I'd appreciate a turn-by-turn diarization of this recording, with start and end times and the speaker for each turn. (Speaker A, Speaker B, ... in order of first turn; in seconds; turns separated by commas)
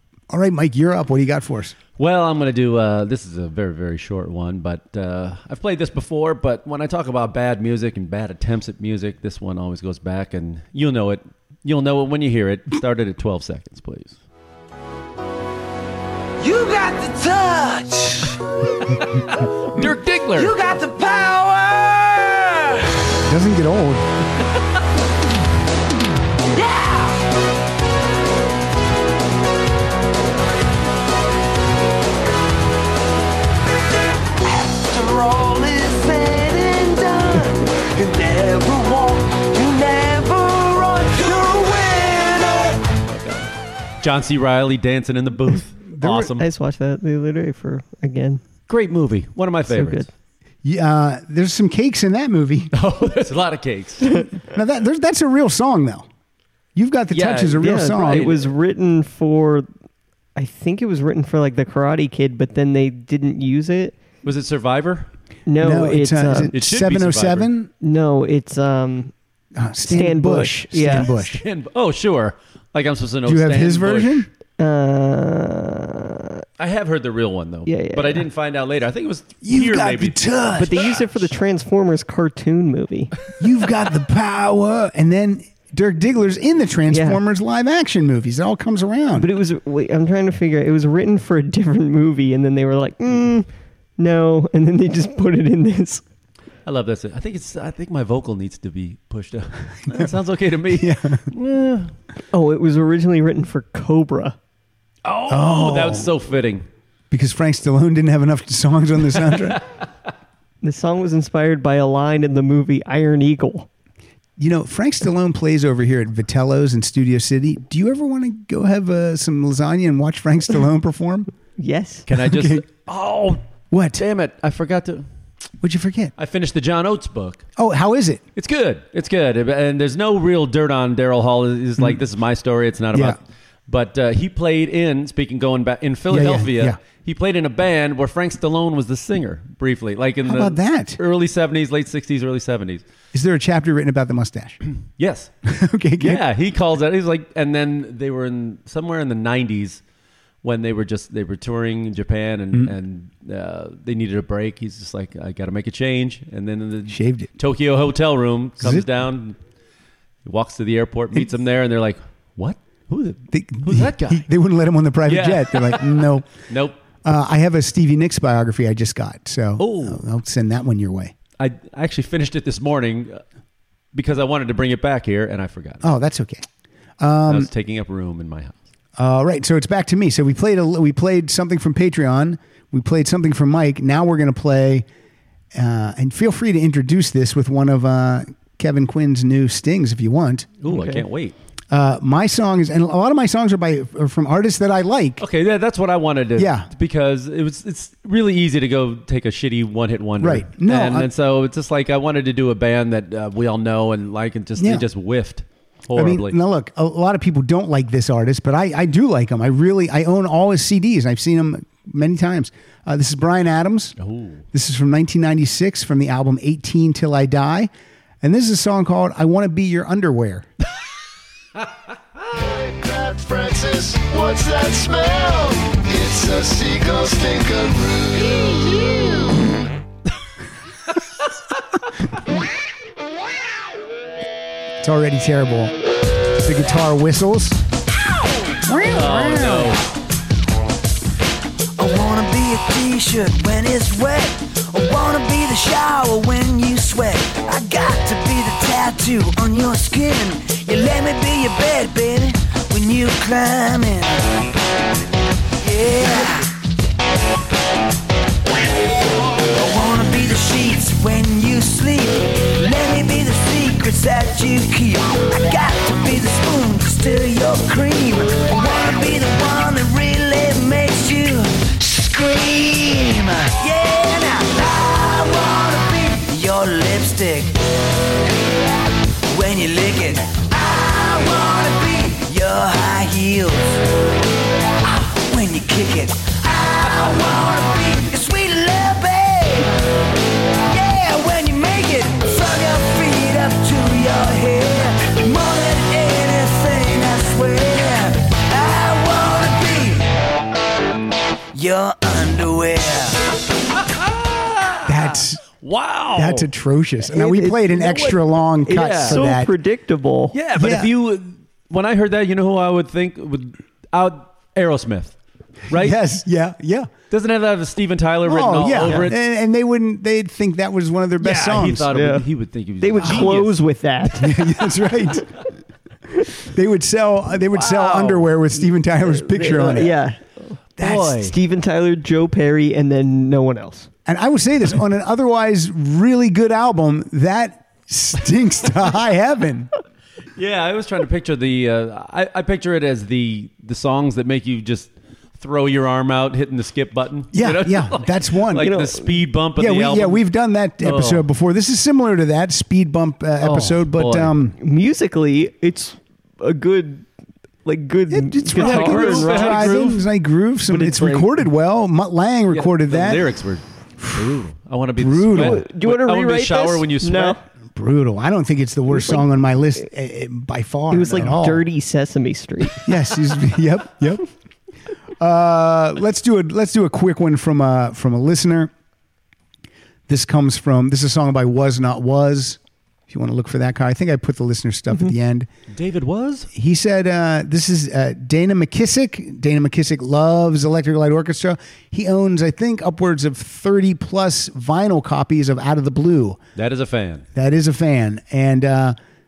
Speaker A: 0.3-1.8, Speaker B: 2.0-14.2, Speaker C: 16.4-18.4, Speaker B: 19.7-20.5, Speaker C: 20.4-22.9, Speaker A: 23.3-24.1, Speaker C: 26.5-27.2, Speaker C: 34.4-42.9, Speaker B: 43.1-46.4, Speaker A: 45.9-46.3, Speaker D: 46.4-48.4, Speaker B: 48.7-50.1, Speaker D: 49.7-50.1, Speaker A: 50.6-52.7, Speaker B: 52.7-54.2, Speaker A: 54.5-56.1, Speaker A: 56.8-58.3, Speaker B: 57.1-58.5, Speaker D: 57.6-59.7, Speaker D: 60.4-64.0, Speaker B: 64.2-65.1, Speaker D: 65.5-66.5, Speaker A: 65.6-67.7, Speaker B: 66.5-67.5, Speaker D: 67.8-69.1, Speaker A: 69.6-71.4, Speaker D: 69.8-71.1, Speaker B: 70.9-74.3, Speaker A: 73.2-74.3, Speaker D: 74.6-76.4, Speaker B: 76.6-80.2, Speaker D: 77.7-78.2, Speaker A: 79.4-81.0, Speaker D: 80.5-83.1, Speaker A: 83.4-89.3, Speaker D: 86.9-87.2, Speaker D: 89.2-93.5, Speaker D: 94.0-96.0, Speaker B: 96.7-101.9, Speaker A: 100.7-101.3, Speaker D: 102.3-104.4, Speaker B: 105.0-106.7, Speaker A: 105.3-106.1, Speaker A: 107.1-109.6, Speaker B: 109.3-109.6, Speaker D: 110.6-113.7, Speaker A: 114.4-121.3, Speaker D: 121.6-122.0, Speaker B: 122.1-123.4, Speaker A: 122.2-122.6, Speaker A: 123.7-124.0, Speaker B: 124.0-125.1, Speaker A: 125.6-126.1, Speaker B: 126.2-127.5, Speaker A: 127.6-128.2, Speaker B: 128.4-142.8, Speaker A: 132.9-133.2, Speaker A: 136.1-136.8, Speaker A: 140.2-141.0, Speaker A: 143.1-144.6, Speaker B: 145.0-145.3, Speaker A: 145.5-146.2, Speaker B: 146.0-149.8, Speaker B: 150.4-159.4, Speaker A: 156.9-157.3, Speaker A: 158.6-158.9, Speaker B: 160.2-164.3, Speaker A: 163.3-166.3, Speaker B: 165.1-166.8, Speaker A: 167.0-171.1, Speaker B: 169.6-170.1, Speaker B: 171.4-173.2, Speaker B: 173.9-175.9, Speaker A: 175.8-176.5, Speaker A: 177.0-177.5, Speaker B: 177.3-178.6, Speaker A: 179.0-184.9, Speaker A: 185.5-190.5, Speaker B: 190.6-191.4, Speaker D: 190.7-191.0, Speaker A: 191.7-195.2, Speaker B: 195.2-206.4, Speaker A: 196.4-196.7, Speaker A: 200.2-201.1, Speaker A: 204.6-204.9, Speaker A: 205.9-213.9, Speaker B: 214.0-214.4, Speaker A: 214.5-217.7, Speaker A: 218.2-220.5, Speaker E: 222.3-229.2, Speaker A: 234.8-235.8, Speaker A: 236.4-237.6, Speaker A: 238.7-239.8, Speaker B: 238.9-239.8, Speaker C: 241.8-254.3, Speaker C: 255.6-256.5, Speaker C: 259.4-277.6, Speaker C: 279.3-283.9, Speaker C: 284.8-289.7, Speaker C: 290.7-300.1, Speaker C: 301.5-303.2, Speaker B: 304.0-306.5, Speaker A: 304.9-305.4, Speaker A: 306.1-309.5, Speaker D: 307.1-307.8, Speaker B: 307.8-309.2, Speaker D: 308.7-310.4, Speaker B: 310.3-315.2, Speaker A: 310.6-310.9, Speaker B: 315.7-316.0, Speaker A: 315.7-316.9, Speaker B: 317.1-319.2, Speaker A: 318.2-321.9, Speaker B: 321.2-323.6, Speaker D: 321.9-322.2, Speaker D: 322.8-324.4, Speaker A: 323.0-323.3, Speaker A: 324.2-325.4, Speaker A: 326.3-330.0, Speaker B: 327.5-328.3, Speaker D: 329.1-330.6, Speaker A: 330.8-331.2, Speaker B: 330.8-331.3, Speaker D: 331.1-333.9, Speaker A: 334.1-339.7, Speaker B: 340.4-350.2, Speaker A: 347.3-348.8, Speaker D: 348.6-349.1, Speaker A: 349.6-354.6, Speaker B: 350.8-351.3, Speaker B: 353.4-354.4, Speaker D: 354.6-357.1, Speaker D: 357.6-359.8, Speaker A: 358.1-363.2, Speaker B: 358.6-360.1, Speaker D: 360.7-361.3, Speaker B: 362.5-367.4, Speaker A: 364.0-364.4, Speaker A: 365.0-365.6, Speaker D: 365.3-367.4, Speaker A: 367.8-371.7, Speaker D: 368.9-369.2, Speaker D: 370.9-372.9, Speaker A: 372.8-374.3, Speaker A: 375.2-378.7, Speaker A: 380.1-385.5, Speaker B: 385.7-386.5, Speaker A: 386.5-396.4, Speaker B: 396.6-397.2, Speaker A: 397.4-399.0